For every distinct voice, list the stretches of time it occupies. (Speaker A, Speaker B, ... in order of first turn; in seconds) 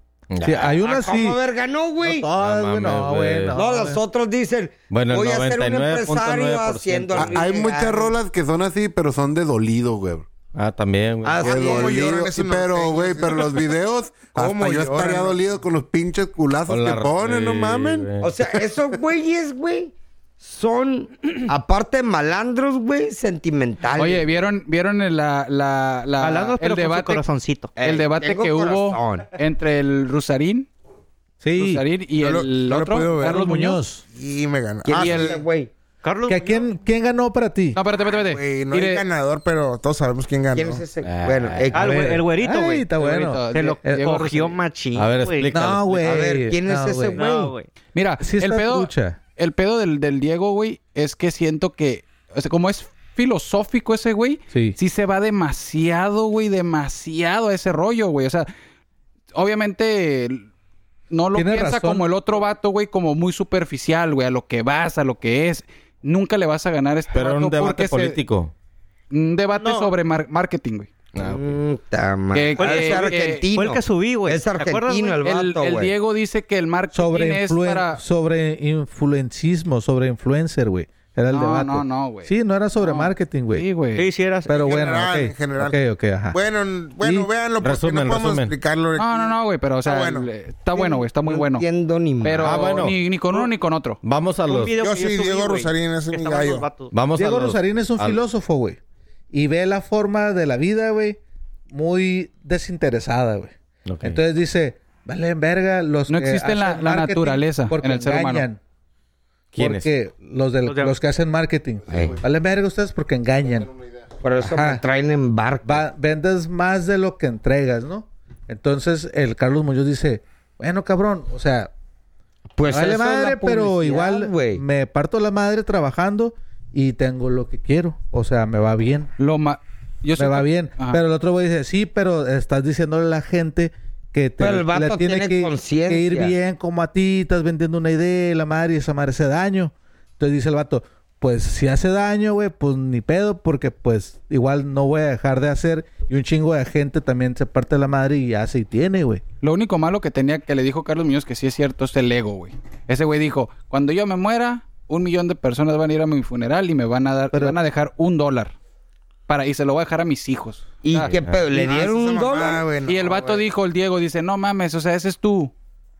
Speaker A: 0.3-0.7, 2.4-3.6, 4.9-7.4, 10.5-11.5, 16.7-18.3, 41.0-41.9, 44.9-45.9, 67.1-68.5, 71.1-71.6, 87.6-88.5, 92.3-93.0, 94.0-94.8, 96.9-98.2, 103.8-104.2, 109.5-109.9, 161.1-161.4
Speaker B: 0.4-1.4, 2.0-4.0, 31.4-31.8, 33.2-34.0, 36.3-37.8, 41.8-44.1, 45.5-47.4, 48.2-49.2, 54.5-54.8, 61.3-62.0, 76.9-83.7, 84.5-86.4, 87.0-87.3, 97.2-98.8, 99.3-101.2, 101.7-108.6, 109.6-113.7, 114.4-114.8, 115.6-121.7, 122.7-129.1, 130.2-149.2, 157.3-157.6
Speaker C: 0.6-2.3, 3.5-8.1, 11.2-12.2, 18.2-24.2, 27.8-29.3, 34.8-35.7, 40.5-42.0, 46.0-47.5, 71.1-75.9, 90.9-92.7, 111.9-112.2, 114.2-115.8, 122.5-124.6, 134.4-136.3, 160.8-163.1
Speaker D: 7.1-10.3, 11.4-18.1, 111.9-112.2, 113.7-113.9
Speaker E: 11.4-13.7, 14.3-15.4, 32.1-33.4, 34.1-35.4, 38.2-40.8, 84.6-85.8, 86.3-90.8, 94.8-96.7, 161.5-163.4
Speaker F: 23.9-27.2, 27.8-30.7, 31.6-33.8, 35.0-35.4, 37.7-39.0, 43.0-44.6, 47.9-58.5, 59.3-60.5, 61.1-68.2, 69.1-70.9, 72.3-73.4, 75.2-78.0, 81.3-84.1, 89.0-91.7, 92.2-94.0, 106.1-108.5, 129.2-131.0, 149.4-158.5, 159.3-161.1, 162.9-165.5
Speaker G: 26.2-27.7, 36.0-36.7, 41.7-45.5, 47.1-47.7, 69.5-69.9, 72.6-75.2, 84.0-84.8, 94.5-96.9, 110.6-111.0